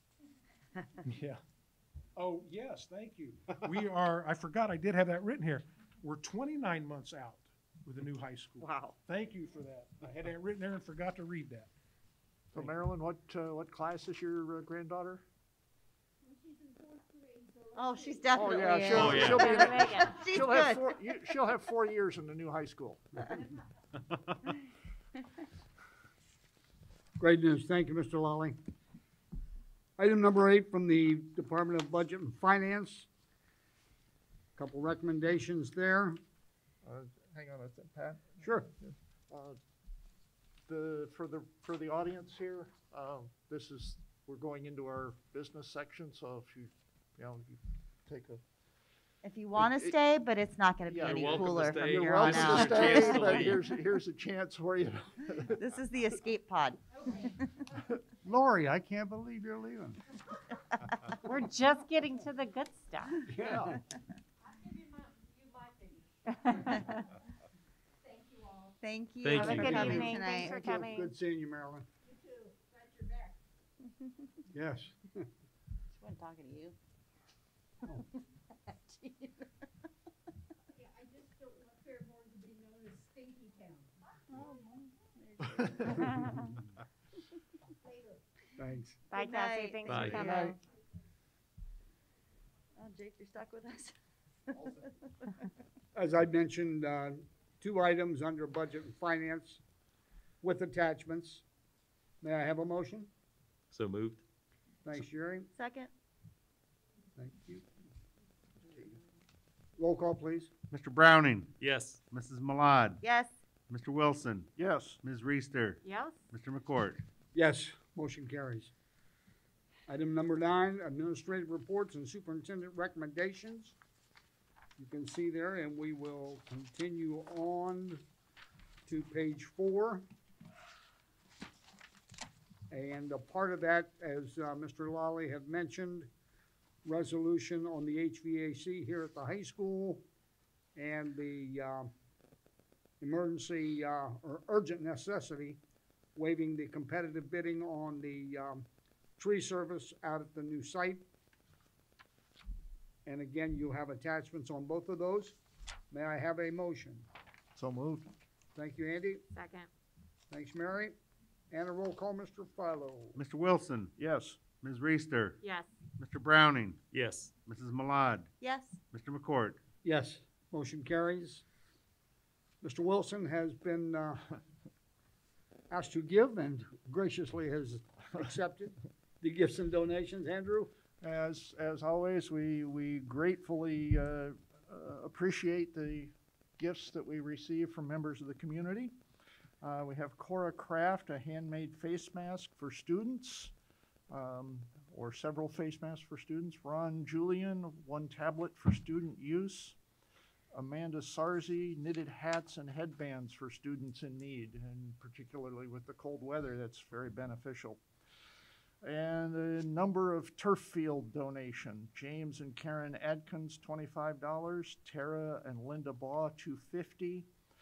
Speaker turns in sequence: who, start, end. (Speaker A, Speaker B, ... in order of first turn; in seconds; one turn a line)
Speaker A: 1.1-1.4
Speaker A: 2.2-11.7
Speaker B: 8.6-9.0
Speaker C: 12.5-15.2
Speaker B: 17.8-20.9
Speaker C: 18.3-23.1
Speaker D: 18.9-19.5
Speaker E: 19.2-20.1
Speaker F: 27.2-28.6
Speaker F: 30.0-33.1
Speaker F: 34.6-36.2
Speaker C: 36.8-39.6
Speaker F: 38.4-38.7
Speaker C: 40.7-48.4
Speaker B: 49.2-53.5
Speaker C: 49.6-50.0
Speaker C: 50.9-55.6
Speaker D: 51.0-53.6
Speaker B: 55.5-57.6
Speaker F: 58.2-60.0
Speaker E: 61.2-63.3
Speaker F: 63.3-63.8
Speaker E: 66.3-67.0
Speaker B: 68.8-70.8
Speaker D: 69.2-70.2
Speaker E: 69.3-71.1
Speaker F: 69.6-71.9
Speaker F: 74.5-75.3
Speaker B: 75.9-76.8
Speaker B: 78.7-79.5
Speaker B: 84.3-86.4
Speaker F: 88.6-89.0
Speaker E: 89.1-90.6
Speaker B: 89.1-90.5
Speaker D: 89.9-90.3
Speaker F: 90.2-90.5
Speaker B: 92.8-94.0
Speaker B: 94.5-94.9
Speaker F: 96.0-99.6
Speaker F: 100.4-101.4
Speaker F: 102.2-103.1
Speaker D: 103.7-104.2
Speaker F: 104.8-105.5
Speaker B: 105.5-105.9
Speaker F: 107.2-107.7
Speaker F: 109.8-110.5
Speaker G: 110.7-111.5
Speaker D: 111.6-112.0
Speaker G: 112.1-113.0
Speaker B: 113.0-113.3
Speaker G: 113.7-117.0
Speaker C: 114.6-115.0
Speaker E: 115.8-116.2
Speaker F: 117.3-118.7
Speaker F: 119.9-123.8
Speaker F: 124.8-128.0
Speaker F: 128.9-130.1
Speaker F: 132.7-136.1
Speaker F: 136.8-140.0
Speaker F: 140.8-141.9
Speaker F: 143.0-145.6
Speaker F: 146.2-148.7
Speaker F: 149.2-151.0
Speaker F: 153.1-155.4
Speaker F: 155.9-157.1
Speaker C: 157.6-158.1
Speaker F: 158.6-159.2
Speaker E: 159.3-159.7
Speaker F: 160.3-160.9
Speaker F: 161.5-163.2
Speaker G: 163.2-165.4
Speaker C: 164.0-164.4
Speaker E: 165.4-165.7
Speaker G: 166.0-166.8
Speaker D: 166.9-167.3
Speaker G: 167.4-168.3
Speaker B: 168.4-168.8
Speaker G: 168.9-169.6
Speaker F: 169.8-171.4
Speaker F: 172.6-174.3
Speaker F: 175.7-180.7
Speaker C: 181.0-188.9
Speaker C: 189.6-193.5
Speaker C: 194.1-199.8
Speaker C: 200.5-207.8
Speaker C: 208.8-217.3